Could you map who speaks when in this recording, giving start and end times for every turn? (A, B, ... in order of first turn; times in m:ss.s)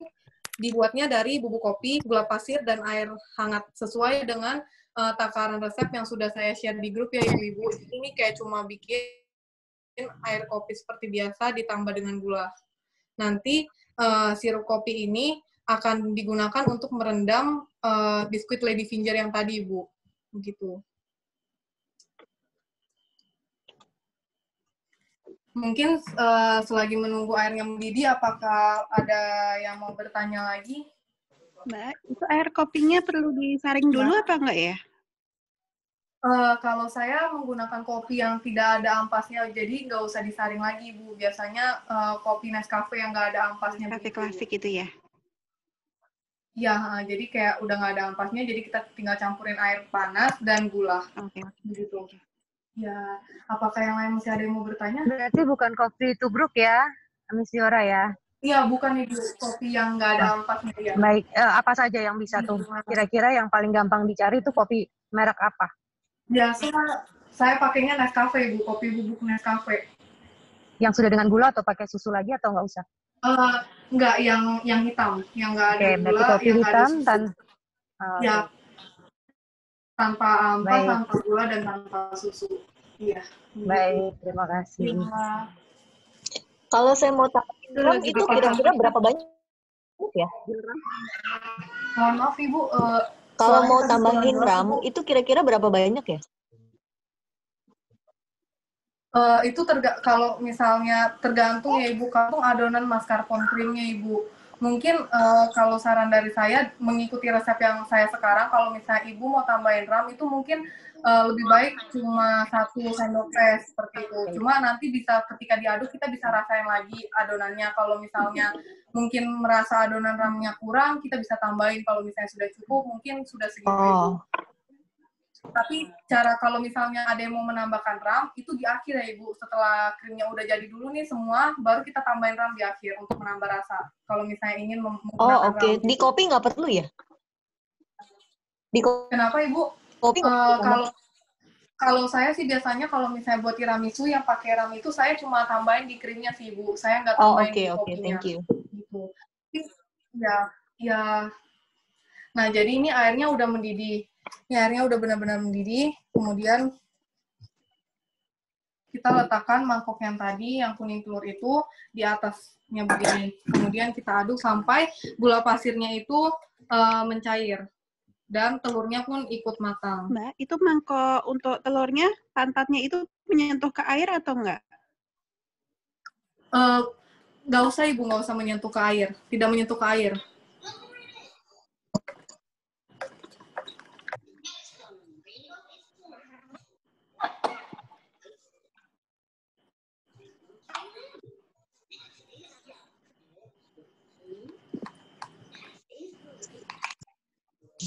0:00.6-0:09.2 A
0:10.0-0:12.5 A
0:13.2-0:20.7 A
0:25.6-0:30.8 A
0:31.7-0:34.8 B
0:36.3-0:44.4 A
0:43.9-0:44.9 B
0:46.6-0:51.0 A
0:51.2-0:51.5 B
0:51.6-0:52.1 A
0:52.8-0:55.0 A
0:55.1-0:56.8 C
0:57.3-0:58.0 C
0:58.4-1:01.0 A
1:01.0-1:05.7 C
1:02.3-1:03.0 A
1:06.3-1:09.8 A
1:10.8-1:12.8 C
1:13.2-1:17.2 A
1:15.7-1:17.3 C
1:18.0-1:18.5 C
1:18.2-1:18.4 A
1:20.0-1:24.0 A
1:20.6-1:21.0 C
1:23.6-1:25.1 C
1:24.8-1:25.4 A
1:26.7-1:29.3 D
1:27.7-1:28.9 A
1:28.1-1:28.6 C
1:30.0-1:30.3 D
1:31.9-1:34.8 A
1:33.4-1:36.2 D
1:39.1-2:04.1 A
2:03.7-2:04.2 D
2:05.5-2:16.1 A
2:15.2-2:16.9 D
2:18.7-2:19.1 D
2:19.1-2:19.7 A
2:20.0-2:20.8 D
2:20.2-2:20.9 A
2:21.8-2:31.2 A
2:27.2-2:28.4 D
2:32.4-2:34.0 A
2:34.5-2:36.6 A
2:38.9-2:47.6 A
2:48.3-2:50.1 A
2:50.1-2:54.6 B
2:56.5-2:56.8 A
2:57.5-3:00.2 A